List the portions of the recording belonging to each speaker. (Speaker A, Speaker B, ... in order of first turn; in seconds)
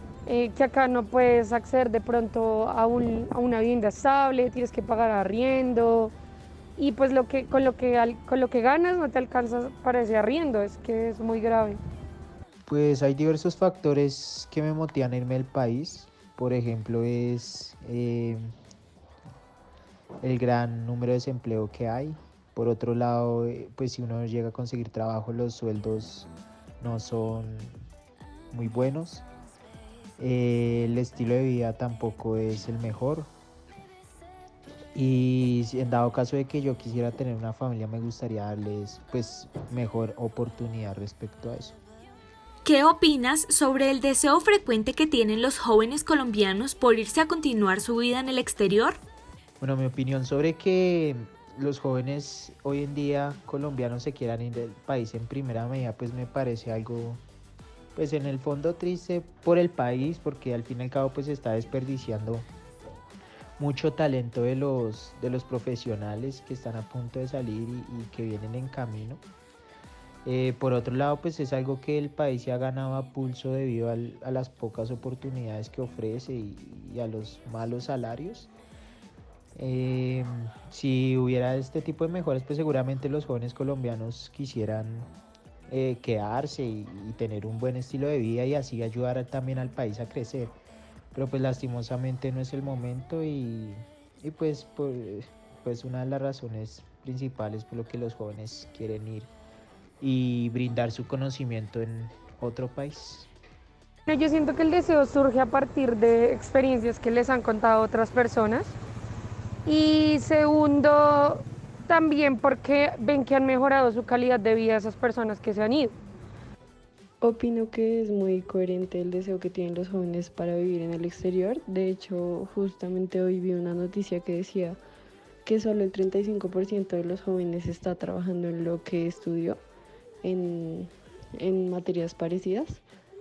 Speaker A: 0.3-6.1, 6.8-11.8, 104.1-108.8, 109.7-115.9
Speaker B: 12.7-18.5, 20.2-26.3, 26.8-27.8, 28.5-29.2, 30.2-33.3, 35.0-41.8, 49.6-57.2, 58.0-62.5, 63.6-69.2, 70.2-78.5, 79.6-85.1, 85.7-90.5, 91.1-99.3, 100.0-103.3
Speaker C: 42.6-49.0
Speaker D: 117.2-124.8, 125.5-129.6, 130.2-132.8